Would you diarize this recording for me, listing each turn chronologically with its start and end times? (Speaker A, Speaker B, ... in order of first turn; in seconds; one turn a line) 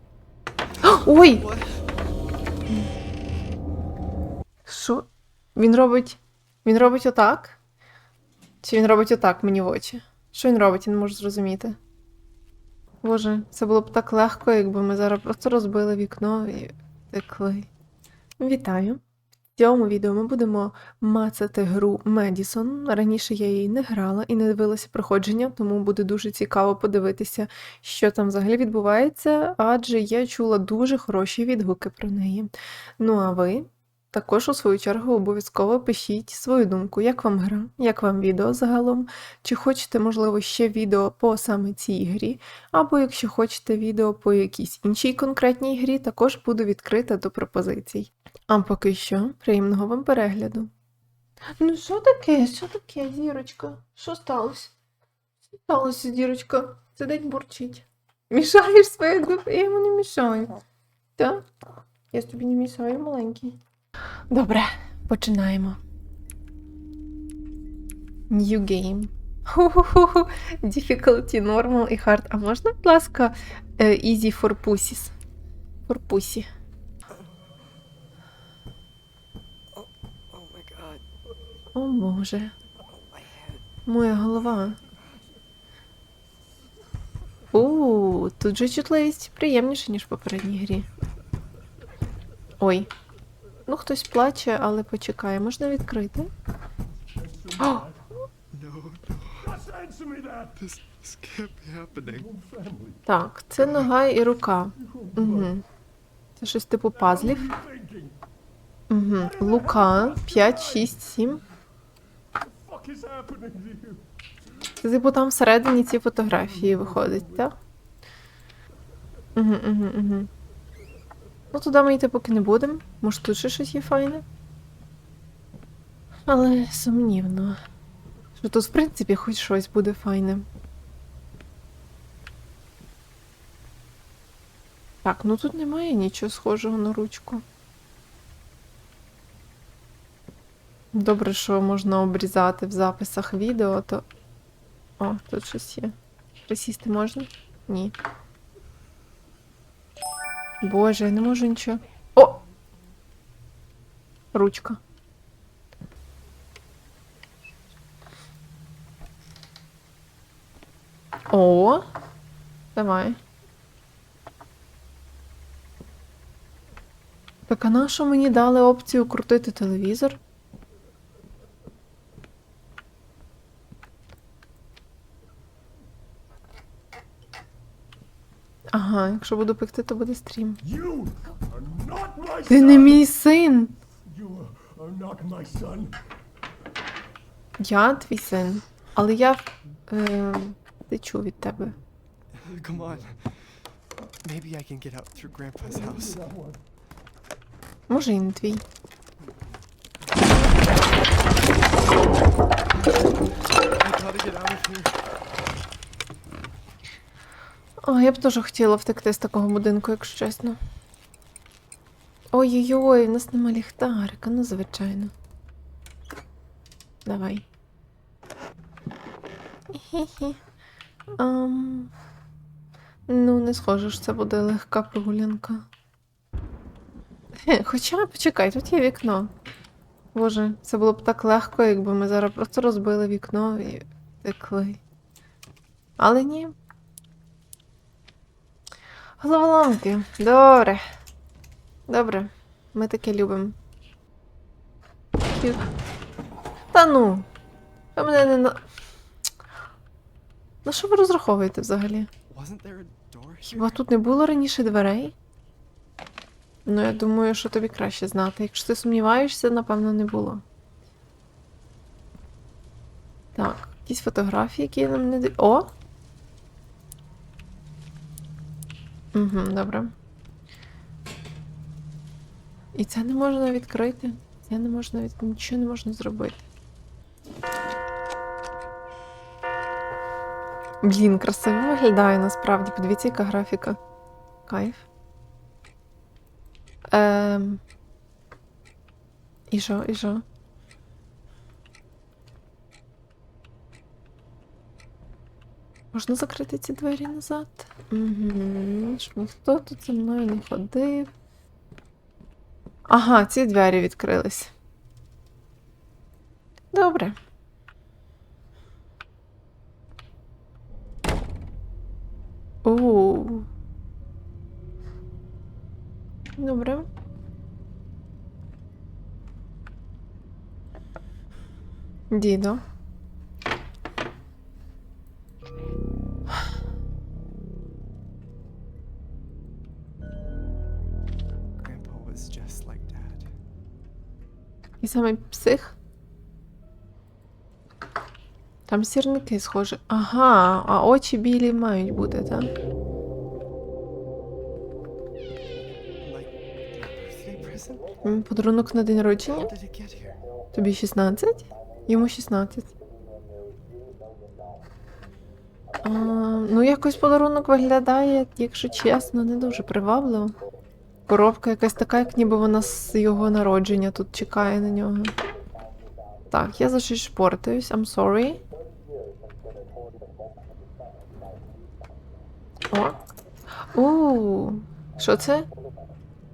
Speaker A: 0.8-1.8
Speaker B: 0.8-1.4
Speaker B: 4.7-7.6
Speaker B: 8.6-11.8
Speaker B: 13.0-17.7
Speaker B: 18.4-19.0
Speaker B: 19.6-50.7
Speaker B: 51.6-54.7
Speaker B: 55.6-60.6
Speaker B: 61.2-61.5
Speaker B: 62.1-63.6
Speaker B: 64.3-65.8
Speaker B: 68.3-75.1
Speaker B: 75.9-76.5
Speaker A: 79.7-81.0
Speaker B: 81.8-82.5
Speaker A: 82.9-83.6
Speaker B: 83.9-84.8
Speaker B: 87.5-90.9
Speaker B: 92.6-92.9
Speaker B: 93.7-96.3
Speaker B: 97.6-97.9
Speaker A: 98.5-102.8
Speaker B: 103.1-105.6
Speaker B: 106.4-107.6
Speaker B: 108.9-111.4
Speaker B: 114.8-117.6
Speaker B: 119.4-120.3
Speaker B: 121.5-124.2
Speaker B: 126.3-127.6
Speaker B: 128.4-130.5
Speaker B: 135.0-137.4
Speaker B: 140.9-144.1
Speaker B: 145.0-145.9
Speaker B: 146.5-147.9
Speaker B: 150.6-152.4
Speaker B: 154.3-154.8
Speaker B: 161.3-161.9
Speaker B: 162.8-163.2
Speaker B: 167.5-170.2
Speaker B: 178.7-180.6
Speaker B: 182.4-183.7
Speaker B: 187.6-191.8
Speaker A: 192.3-193.7
Speaker A: 194.2-196.3
Speaker B: 197.9-198.6
Speaker A: 199.2-199.4
Speaker A: 203.8-205.0
Speaker B: 207.8-210.6
Speaker B: 212.3-215.1
Speaker B: 217.1-217.4
Speaker B: 219.7-220.4
Speaker B: 221.2-221.9
Speaker B: 223.1-225.7
Speaker B: 227.4-229.3
Speaker B: 230.1-234.8
Speaker B: 236.0-236.6
Speaker B: 239.2-240.8
Speaker B: 241.9-243.6
Speaker B: 246.7-247.3
Speaker B: 248.0-248.6
Speaker B: 250.7-252.1
Speaker A: 252.3-253.8
Speaker B: 253.5-255.2
Speaker B: 256.7-260.4
Speaker B: 263.4-265.7
Speaker B: 269.1-269.9
Speaker B: 272.7-276.4
Speaker B: 280.8-283.8
Speaker B: 284.5-284.9
Speaker B: 286.9-287.6
Speaker B: 289.5-290.2
Speaker B: 295.9-301.1
Speaker B: 302.9-304.5
Speaker B: 306.7-307.2
Speaker B: 312.6-313.5
Speaker B: 316.4-316.9
Speaker B: 322.1-322.6
Speaker A: 331.6-333.3
Speaker B: 334.8-335.8
Speaker B: 338.7-342.5
Speaker A: 346.0-347.9
Speaker B: 348.0-349.5
Speaker A: 349.3-350.2
Speaker B: 350.5-352.7
Speaker B: 355.8-360.3
Speaker B: 361.1-365.1
Speaker B: 366.3-368.4
Speaker B: 372.7-373.0
Speaker B: 373.7-375.5